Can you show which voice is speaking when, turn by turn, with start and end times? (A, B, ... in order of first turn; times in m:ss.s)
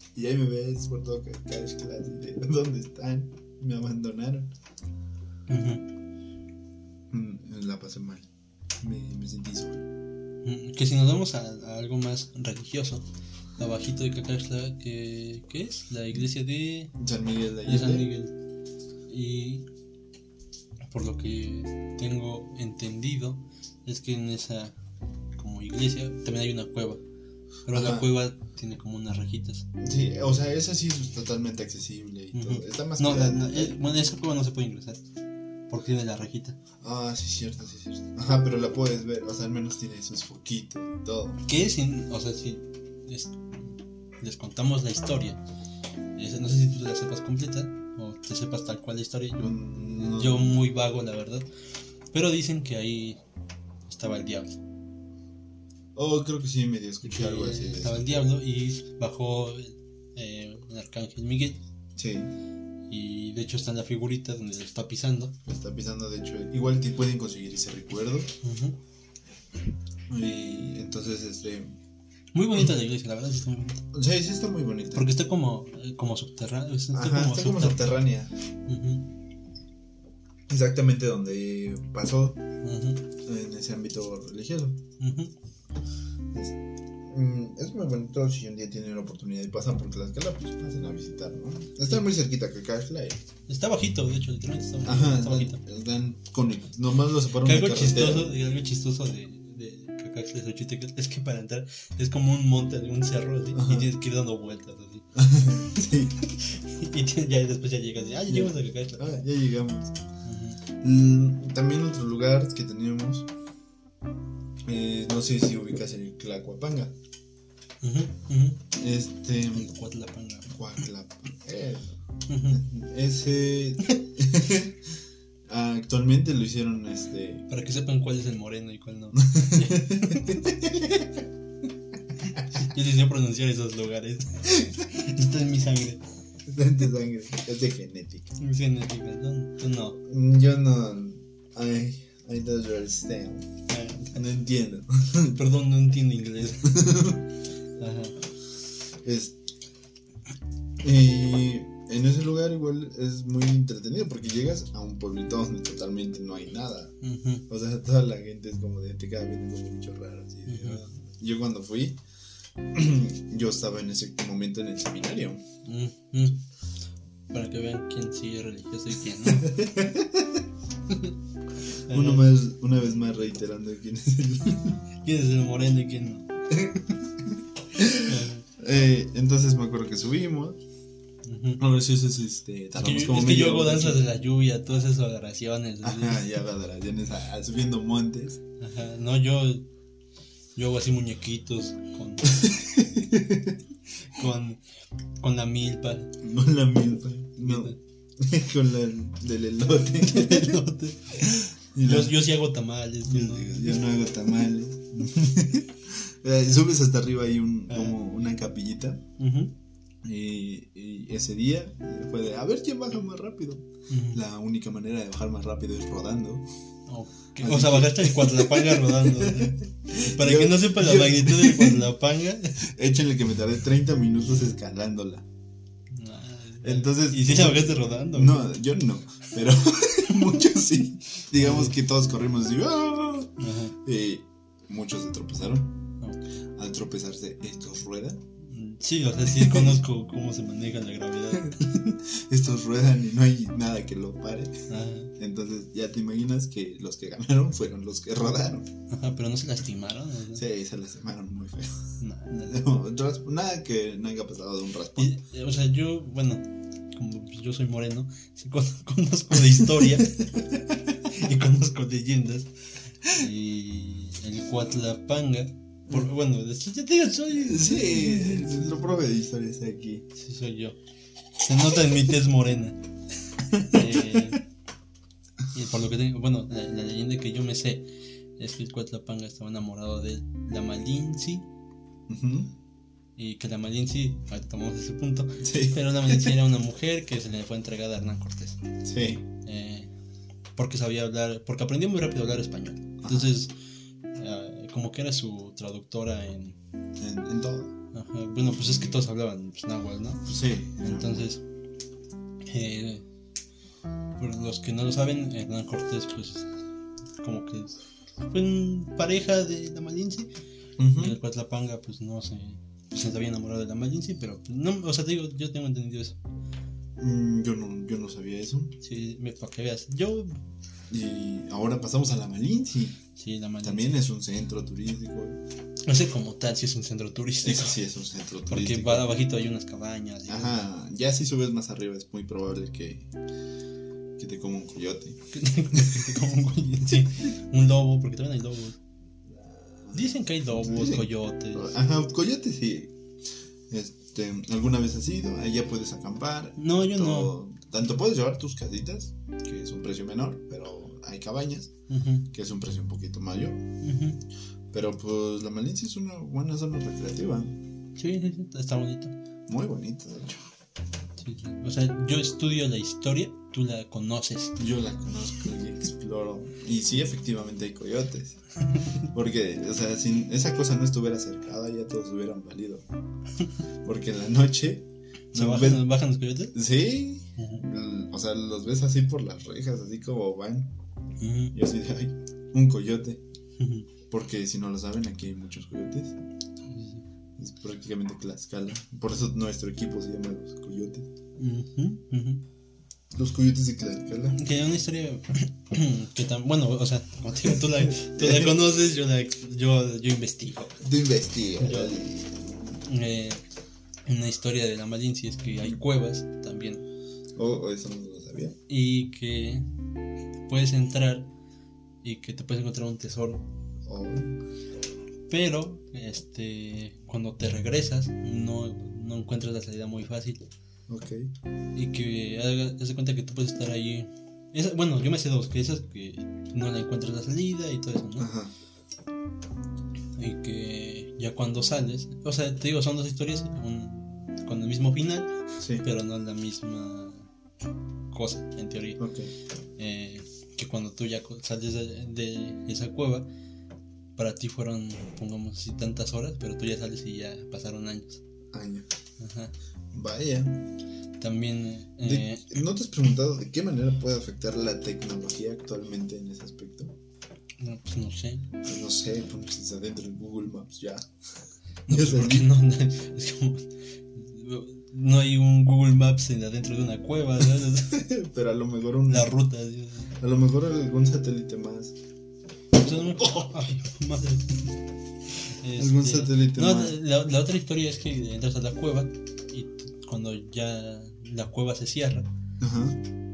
0:00.1-0:04.5 A
0:05.5-0:05.9 B
0:07.1-0:08.3 A
0:08.8-0:09.9 A
0:10.4-0:13.0 B
0:13.6-0:16.9 B
0:17.0-0:18.1 A
0:17.6-0:18.3 B
0:19.1-0:19.6 B
0:20.9-0:24.8 B
0:25.4-0:27.0 B
0:27.6-0:29.7 B
0:27.7-0:28.1 A
0:29.8-0:33.8 A
0:32.3-0:35.0 B
0:35.7-0:36.6 B
0:36.8-0:41.4 A
0:41.4-0:45.4 B
0:46.2-0:51.5 B
0:49.4-0:50.6 A
0:52.1-0:53.2 B
0:53.9-0:54.6 B
0:55.9-0:58.1 A
0:57.0-1:01.6 B
1:02.0-1:02.3 A
1:02.9-1:05.4 B
1:05.4-1:08.3 A
1:08.4-1:08.8 B
1:10.1-1:11.7 A
1:12.3-1:13.9 B
1:13.9-1:15.1 A
1:14.9-1:18.0 B
1:16.9-1:18.3 A
1:18.6-1:19.1 B
1:20.5-1:22.4 A
1:22.6-1:23.0 B
1:23.2-1:24.8 A
1:25.0-1:25.3 B
1:27.1-1:33.2 A
1:33.5-1:35.6 B
1:34.8-1:38.3 A
1:37.4-1:45.1 B
1:43.5-1:43.9 A
1:45.1-1:46.2 A
1:46.2-1:49.1 B
1:48.3-1:50.0 A
1:50.2-1:50.6 B
1:50.8-1:53.3 A
1:54.6-1:56.9 A
1:57.8-1:58.6 B
1:58.7-1:59.7 A
1:59.5-2:00.6 B
2:00.5-2:04.8 A
2:02.3-2:02.6 B
2:05.5-2:07.4 A
2:07.5-2:11.0 B
2:09.2-2:11.0 A
2:12.3-2:16.0 B
2:16.5-2:18.4 A
2:18.4-2:20.0 B
2:20.0-2:23.5 A
2:23.7-2:24.2 B
2:24.1-2:25.4 A
2:25.2-2:27.2 B
2:26.6-2:27.2 A
2:27.8-2:28.2 B
2:29.0-2:29.4 A
2:30.8-2:36.9 A
2:37.0-2:37.4 B
2:37.5-2:42.0 A
2:40.5-2:40.8 B
2:42.7-2:45.4 A
2:45.6-2:46.4 B
2:47.3-2:49.6 B
2:49.2-2:50.4 A
2:50.9-2:51.1 B
2:51.9-2:52.3 B
2:51.9-2:54.8 A
2:55.0-2:56.8 B
2:56.5-3:00.6 A
2:57.9-2:58.4 B
3:01.2-3:01.6 B
3:01.6-3:04.1 A
3:02.8-3:06.2 B
3:05.8-3:08.4 A
3:08.6-3:09.7 B
3:10.6-3:12.5 B
3:12.4-3:13.6 A
3:14.0-3:14.6 B
3:15.2-3:16.1 B
3:16.2-3:20.6 A
3:17.4-3:17.8 B
3:20.0-3:21.3 B
3:21.2-3:22.3 A
3:21.8-3:23.8 B
3:23.1-3:29.0 A
3:27.7-3:28.0 B
3:29.2-3:29.5 B
3:30.0-3:36.4 A
3:33.9-3:34.2 B
3:36.9-3:42.7 B
3:37.4-3:41.9 A
3:42.6-3:45.3 A
3:45.9-3:48.5 B
3:46.6-3:55.8 A
3:51.4-3:51.8 B
3:53.4-3:53.8 B
3:56.0-3:56.3 B
3:56.6-3:58.2 A
3:58.4-4:02.0 B
3:59.3-3:59.8 A
4:01.4-4:04.6 A
4:04.7-4:05.1 B
4:05.2-4:08.7 A
4:08.9-4:10.4 B
4:10.3-4:15.1 A
4:12.0-4:12.6 B
4:15.0-4:22.5 B
4:23.0-4:28.8 B
4:27.4-4:30.1 A
4:30.1-4:30.8 B
4:31.4-4:32.8 B
4:33.5-4:34.4 A
4:33.6-4:34.4 B
4:35.5-4:41.5 B
4:42.1-4:42.5 A
4:43.2-4:49.9 B
4:45.4-4:46.4 A
4:48.8-4:49.2 A
4:50.6-4:53.5 B
4:53.0-4:53.3 A
4:54.2-4:56.6 B
4:57.0-4:57.8 A
4:57.9-5:00.3 B
4:58.4-4:59.0 A
5:00.2-5:01.3 A
5:00.8-5:01.4 B
5:02.4-5:03.0 B
5:04.2-5:06.5 B
5:07.2-5:10.3 B
5:10.8-5:11.2 A
5:10.9-5:16.2 B
5:17.0-5:18.8 A
5:18.8-5:20.4 B
5:20.9-5:23.0 A
5:23.1-5:24.0 B
5:23.6-5:25.4 A
5:25.9-5:27.8 B
5:27.4-5:29.1 A
5:28.5-5:30.7 B
5:30.3-5:33.1 A
5:34.2-5:35.2 A
5:35.3-5:38.8 B
5:35.7-5:36.2 A
5:39.3-5:42.9 A
5:39.9-5:41.8 B
5:43.7-5:51.7 A
5:46.6-5:47.4 B
5:51.9-5:52.3 B
5:52.3-5:53.6 A
5:53.8-5:54.2 B
5:54.7-5:57.6 A
5:58.0-5:59.1 B
5:59.5-6:00.4 A
6:01.2-6:04.6 B
6:04.6-6:08.4 A
6:08.6-6:09.0 B
6:09.0-6:12.8 A
6:13.8-6:15.9 A
6:15.3-6:16.6 B
6:16.5-6:20.7 A
6:17.4-6:17.6 B
6:21.2-6:21.6 B
6:21.5-6:23.2 A
6:23.6-6:23.9 B
6:24.1-6:26.2 A
6:26.7-6:27.0 B
6:27.4-6:31.1 A
6:31.4-6:32.4 B
6:33.1-6:34.4 A
6:34.3-6:40.8 B
6:37.4-6:38.6 A
6:40.8-6:42.8 A
6:41.6-6:42.0 B
6:42.8-6:43.4 B
6:44.1-6:46.8 B
6:47.4-6:48.6 A
6:48.7-6:49.6 B
6:50.5-6:51.3 B
6:52.0-6:53.4 B
6:53.9-6:54.4 A
6:55.3-7:00.4 B
7:00.9-7:01.3 A
7:01.8-7:08.3 B
7:08.2-7:08.5 A
7:10.2-7:17.3 B
7:15.6-7:15.8 A
7:18.1-7:19.0 B
7:19.0-7:19.3 A
7:19.8-7:23.3 B
7:24.2-7:28.2 B
7:28.5-7:28.9 A
7:29.2-7:29.5 B
7:29.9-7:30.6 A
7:31.2-7:32.5 B
7:32.0-7:37.0 A
7:37.6-7:38.5 B
7:38.6-7:41.1 A
7:41.9-7:42.5 A
7:41.9-7:48.0 B
7:47.9-7:49.3 A
7:49.1-7:50.1 B
7:50.2-7:51.9 A
7:52.7-7:54.8 B
7:55.4-8:02.3 B
7:55.8-7:57.0 A
8:02.6-8:03.0 A